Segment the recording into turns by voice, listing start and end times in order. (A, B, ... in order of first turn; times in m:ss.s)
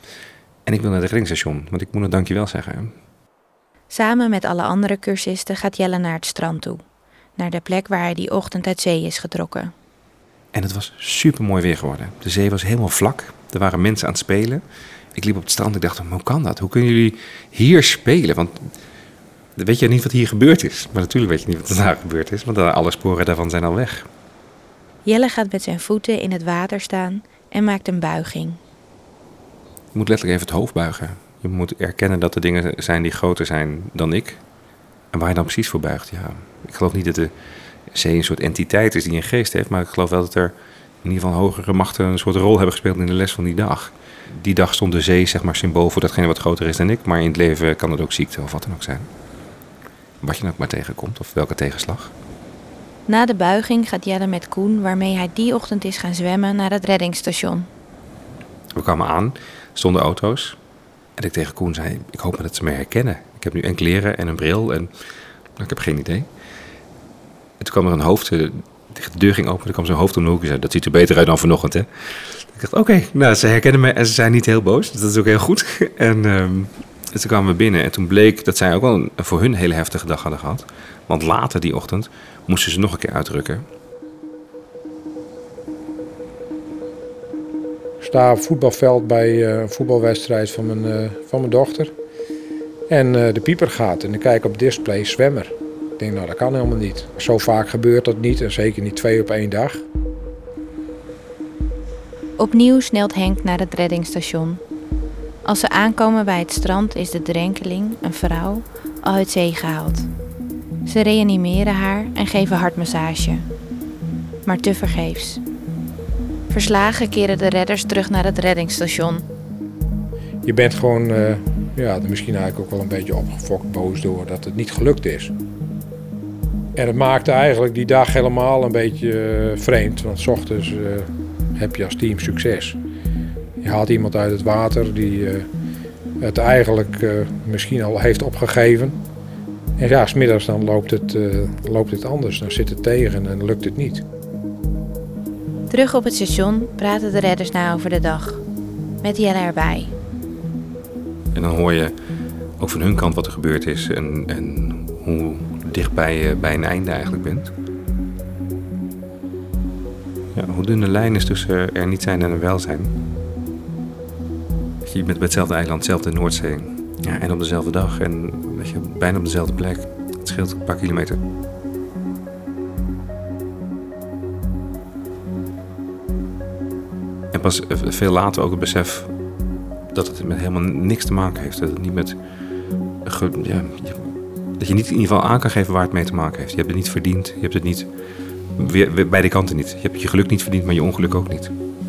0:00.7-0:02.9 A
0:03.9-0:06.8 B
0:07.4-0:09.7 B
0:10.5-0:14.6 A
0:15.2-0:18.7 A
0:19.6-0:24.1 A
0:25.0-0:28.6 B
0:30.0-0:34.4 A
0:35.1-0:37.3 A
0:37.9-0:49.1 A
0:50.2-0:52.1 A
0:53.1-0:57.7 B
0:58.8-1:00.6 A
1:01.2-1:04.9 A
1:05.6-1:06.3 A
1:07.6-1:23.6 A
1:28.0-1:31.9 C
1:32.9-1:39.8 C
1:42.4-1:44.6 B
1:45.4-1:50.1 B
1:50.8-1:53.5 B
1:54.4-1:55.4 B
1:56.5-1:59.2 B
2:00.4-2:05.3 C
2:06.8-2:12.8 C
2:13.6-2:15.5 C
2:16.2-2:19.0 C
2:19.8-2:24.0 C
2:25.7-2:28.4 B
2:29.0-2:29.9 B
2:31.3-2:31.9 A
2:32.6-2:37.5 A
2:40.4-2:42.9 A
2:44.8-2:51.2 A
2:57.3-2:59.1 A
2:59.9-3:02.2 A
3:03.1-3:07.9 A
3:08.6-3:11.5 A